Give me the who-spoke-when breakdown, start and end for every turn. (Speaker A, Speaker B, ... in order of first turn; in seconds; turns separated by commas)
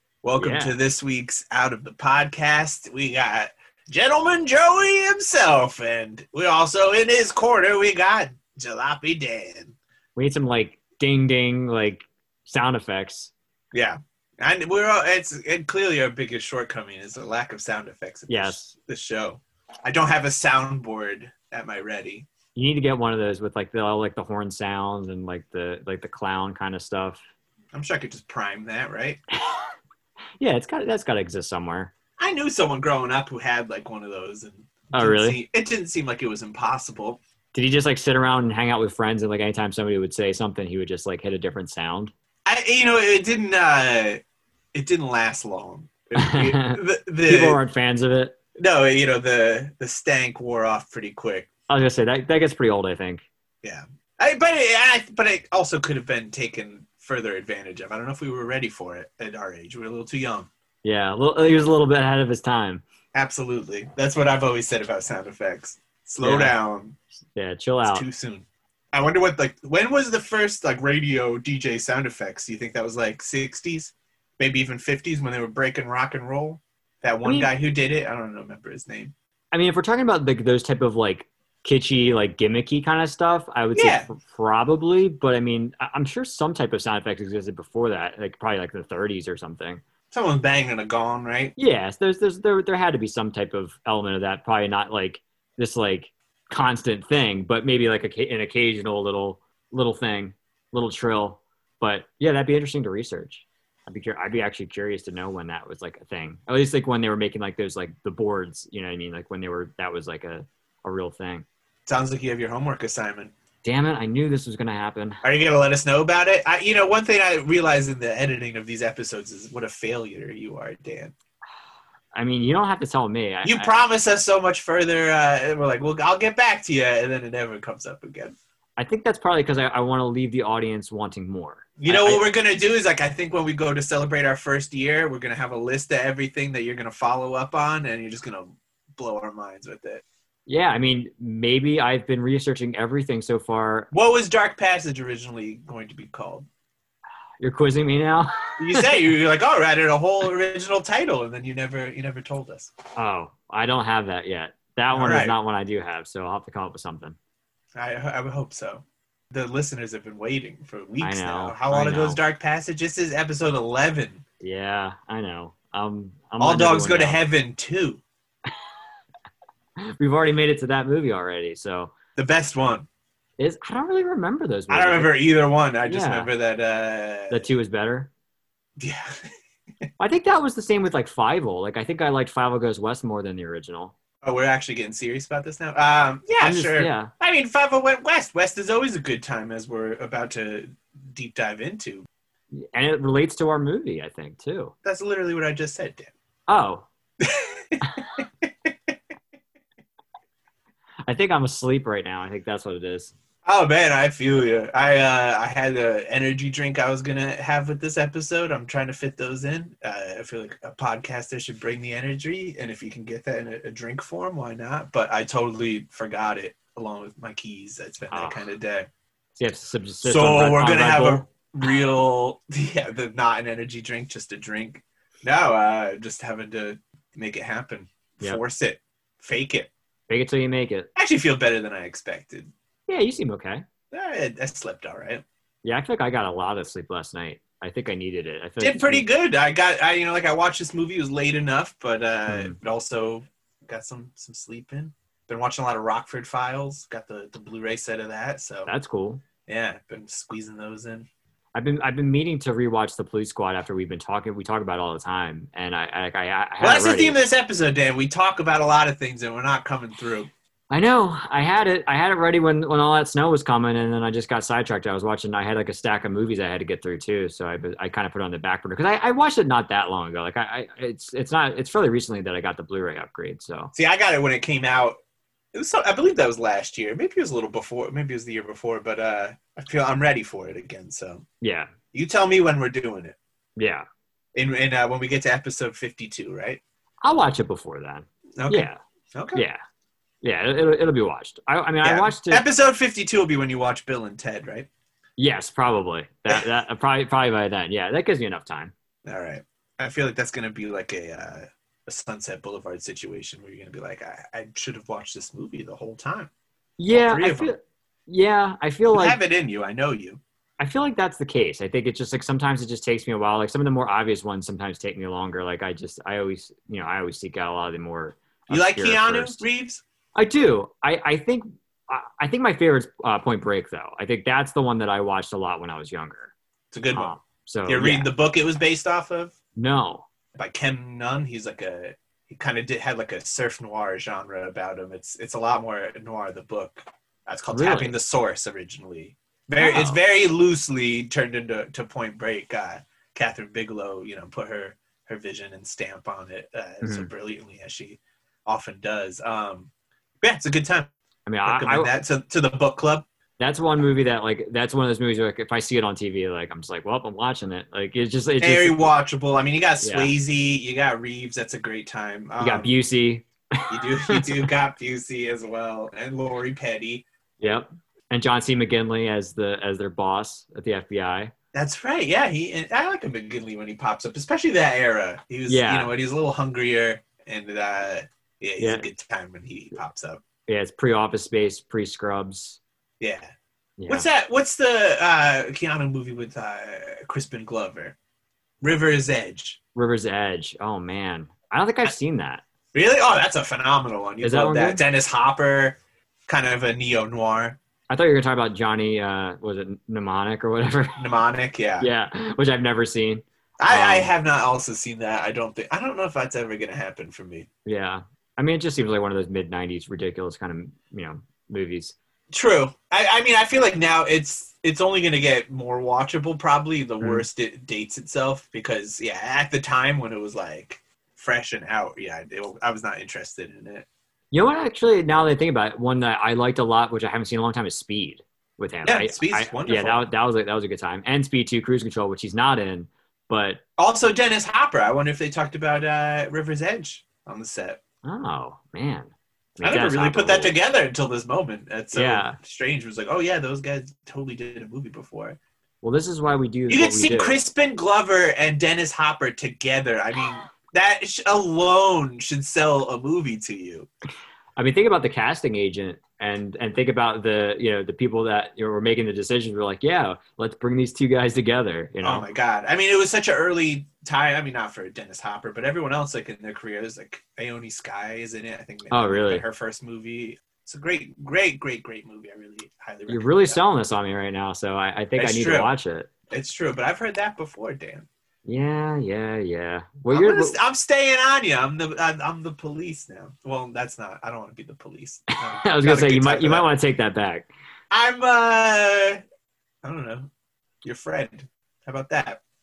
Speaker A: 0.2-9.8, Speaker B: 0.4-0.8, Speaker B: 10.2-13.3, Speaker A: 13.7-22.3, Speaker B: 18.3-18.7, Speaker B: 22.5-27.2, Speaker A: 27.7-29.2, Speaker B: 30.4-31.9, Speaker A: 32.2-37.2, Speaker B: 34.9-35.4, Speaker B: 37.5-42.1, Speaker A: 42.5-44.2, Speaker A: 44.7-47.6, Speaker B: 46.1-48.4, Speaker A: 48.6-51.5, Speaker B: 51.7-53.2, Speaker A: 53.6-60.5, Speaker B: 60.8-62.8, Speaker A: 63.1-67.0, Speaker B: 66.2-66.6, Speaker B: 67.3-68.0, Speaker A: 67.8-79.1, Speaker B: 77.2-77.5, Speaker B: 79.5-89.8, Speaker A: 83.7-84.1, Speaker A: 90.1-91.5, Speaker B: 91.6-111.5, Speaker A: 111.8-113.3, Speaker B: 113.6-115.2, Speaker A: 115.2-121.1, Speaker B: 122.1-123.7, Speaker A: 123.4-128.3, Speaker B: 128.8-132.2, Speaker A: 131.8-140.0, Speaker B: 140.5-143.9, Speaker A: 143.9-146.5, Speaker B: 147.4-149.0, Speaker A: 148.6-152.7, Speaker B: 152.9-157.2, Speaker A: 154.9-155.3, Speaker A: 157.8-164.2, Speaker B: 161.0-162.2, Speaker B: 164.4-167.2, Speaker A: 166.4-168.0, Speaker B: 169.8-171.9, Speaker A: 172.2-172.9, Speaker B: 173.4-175.3, Speaker A: 174.7-177.4, Speaker B: 175.9-176.3, Speaker B: 177.3-178.1, Speaker A: 178.8-179.2, Speaker B: 180.0-183.9, Speaker A: 184.2-192.1, Speaker B: 186.4-187.1, Speaker B: 192.5-194.7, Speaker A: 194.8-196.1, Speaker B: 196.5-196.8, Speaker A: 197.2-198.7, Speaker B: 201.1-203.1, Speaker A: 203.4-218.9, Speaker B: 218.1-218.4, Speaker B: 219.4-221.2, Speaker A: 220.0-229.7, Speaker B: 230.1-230.9, Speaker A: 230.9-232.5, Speaker B: 232.9-233.6, Speaker A: 233.9-235.2, Speaker B: 235.6-239.1, Speaker A: 238.6-248.7, Speaker B: 242.3-242.6, Speaker B: 248.7-249.2, Speaker A: 249.5-251.1, Speaker B: 251.5-257.2, Speaker A: 256.6-260.3, Speaker B: 260.7-273.7, Speaker A: 273.7-275.0, Speaker A: 275.5-281.2, Speaker B: 281.4-281.7, Speaker A: 281.9-283.2, Speaker B: 283.6-283.8, Speaker A: 284.3-286.6, Speaker B: 287.0-288.8, Speaker A: 288.4-289.4, Speaker B: 289.3-289.6, Speaker B: 290.2-292.4, Speaker A: 291.8-294.7, Speaker B: 295.2-298.7, Speaker A: 299.0-306.3, Speaker B: 306.8-309.2, Speaker A: 306.9-307.5, Speaker A: 308.9-310.2, Speaker B: 310.6-319.4, Speaker A: 318.5-319.8, Speaker B: 320.1-326.3, Speaker A: 326.7-327.1, Speaker B: 326.9-328.1, Speaker A: 327.6-329.3, Speaker B: 329.6-330.1, Speaker A: 330.3-349.7, Speaker B: 337.5-337.9, Speaker B: 339.6-340.0, Speaker B: 346.8-347.1, Speaker A: 350.2-350.9, Speaker B: 351.2-351.9, Speaker A: 351.4-353.1, Speaker B: 353.4-358.9, Speaker A: 358.4-362.7, Speaker B: 359.8-360.1, Speaker B: 362.4-364.5, Speaker A: 363.7-367.0, Speaker B: 367.4-371.3, Speaker A: 371.5-380.2, Speaker B: 375.5-375.9, Speaker B: 378.6-378.9, Speaker B: 380.5-382.6, Speaker A: 383.0-383.3, Speaker B: 383.8-384.1, Speaker A: 383.9-387.9, Speaker A: 388.6-389.6, Speaker B: 389.7-392.4, Speaker A: 392.7-395.8, Speaker B: 394.2-394.8, Speaker A: 396.3-397.6, Speaker B: 397.9-401.0, Speaker A: 401.0-401.9, Speaker B: 401.8-404.1, Speaker A: 403.6-407.5, Speaker B: 407.6-411.9, Speaker A: 412.3-423.9, Speaker B: 424.3-433.6, Speaker A: 428.8-430.0, Speaker A: 433.8-437.8, Speaker B: 438.0-440.6, Speaker A: 439.6-445.4, Speaker B: 441.9-442.4, Speaker B: 445.8-447.4, Speaker A: 446.7-453.9, Speaker B: 454.6-462.3, Speaker A: 462.0-473.6, Speaker B: 468.9-469.4, Speaker B: 473.1-476.1, Speaker A: 475.1-475.7, Speaker A: 476.3-478.1, Speaker B: 478.4-480.6, Speaker A: 480.1-486.7, Speaker B: 485.6-487.5, Speaker A: 487.9-489.2, Speaker A: 489.8-490.3, Speaker A: 490.8-492.4